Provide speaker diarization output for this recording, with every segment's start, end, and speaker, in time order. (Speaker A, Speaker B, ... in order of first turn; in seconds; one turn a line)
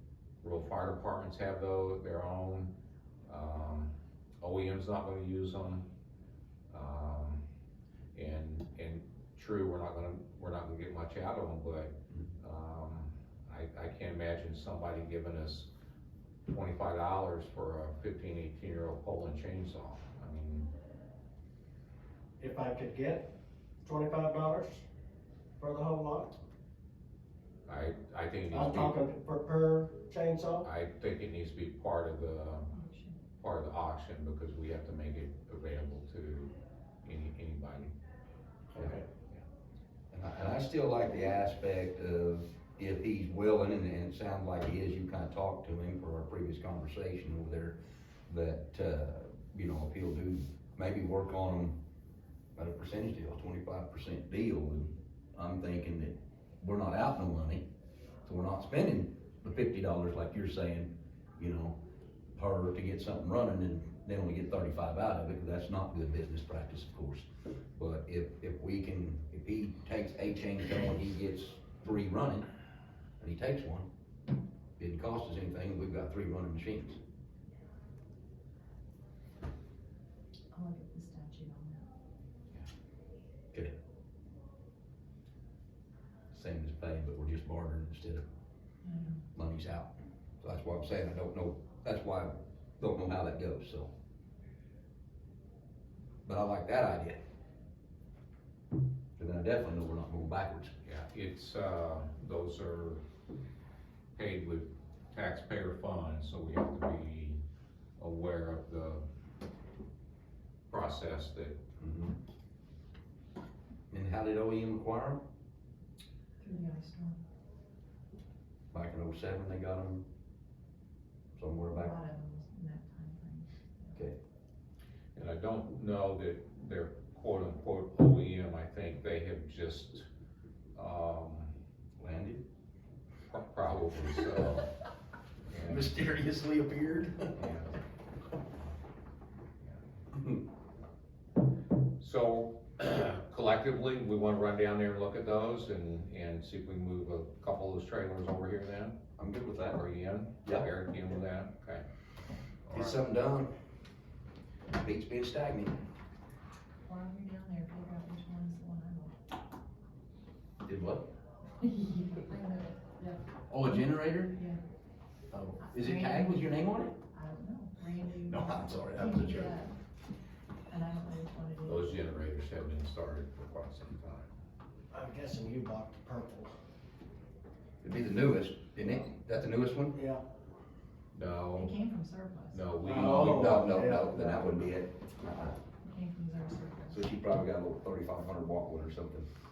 Speaker A: 0.4-2.7
Speaker A: 3.2-5.9
Speaker A: 6.7-7.4
Speaker A: 8.1-15.7
Speaker A: 16.5-20.7
Speaker B: 22.4-23.3
Speaker B: 23.8-24.8
Speaker B: 25.6-26.3
Speaker A: 27.7-28.9
Speaker B: 28.5-30.6
Speaker A: 30.6-32.7
Speaker C: 32.7-33.2
Speaker A: 33.4-37.9
Speaker B: 38.7-39.0
Speaker A: 38.8-39.4
Speaker D: 40.1-47.8
Speaker D: 48.3-51.7
Speaker D: 52.6-57.6
Speaker D: 58.3-61.8
Speaker D: 62.3-72.5
Speaker D: 73.2-73.9
Speaker D: 74.8-77.0
Speaker C: 80.5-81.9
Speaker D: 86.3-88.2
Speaker C: 88.8-89.2
Speaker D: 89.3-93.9
Speaker D: 96.3-97.2
Speaker D: 99.2-100.7
Speaker A: 100.8-103.0
Speaker A: 104.1-107.4
Speaker A: 108.0-109.0
Speaker A: 110.7-111.6
Speaker D: 111.8-112.2
Speaker D: 113.9-115.2
Speaker C: 116.4-117.2
Speaker D: 118.7-120.0
Speaker D: 121.4-122.0
Speaker C: 121.7-124.0
Speaker A: 125.2-130.1
Speaker A: 130.7-131.5
Speaker D: 132.0-132.4
Speaker A: 133.3-134.7
Speaker D: 134.3-134.6
Speaker A: 135.5-135.9
Speaker D: 135.6-137.4
Speaker A: 137.3-137.8
Speaker D: 140.1-140.4
Speaker A: 142.0-149.0
Speaker D: 149.2-149.8
Speaker A: 149.7-151.8
Speaker A: 152.7-153.0
Speaker D: 152.7-153.5
Speaker D: 154.7-155.8
Speaker C: 156.8-159.2
Speaker D: 160.7-161.1
Speaker C: 161.6-163.2
Speaker D: 163.5-164.4
Speaker C: 164.3-164.6
Speaker D: 165.3-167.0
Speaker C: 165.6-166.5
Speaker C: 167.1-169.7
Speaker D: 168.3-169.6
Speaker C: 170.7-171.9
Speaker A: 171.7-174.3
Speaker B: 174.9-176.5
Speaker D: 177.8-180.0
Speaker B: 179.9-180.2
Speaker A: 181.1-181.7
Speaker C: 181.6-182.6
Speaker A: 182.5-183.7
Speaker B: 182.8-184.5
Speaker D: 182.8-185.5
Speaker C: 185.8-187.0
Speaker D: 186.9-189.3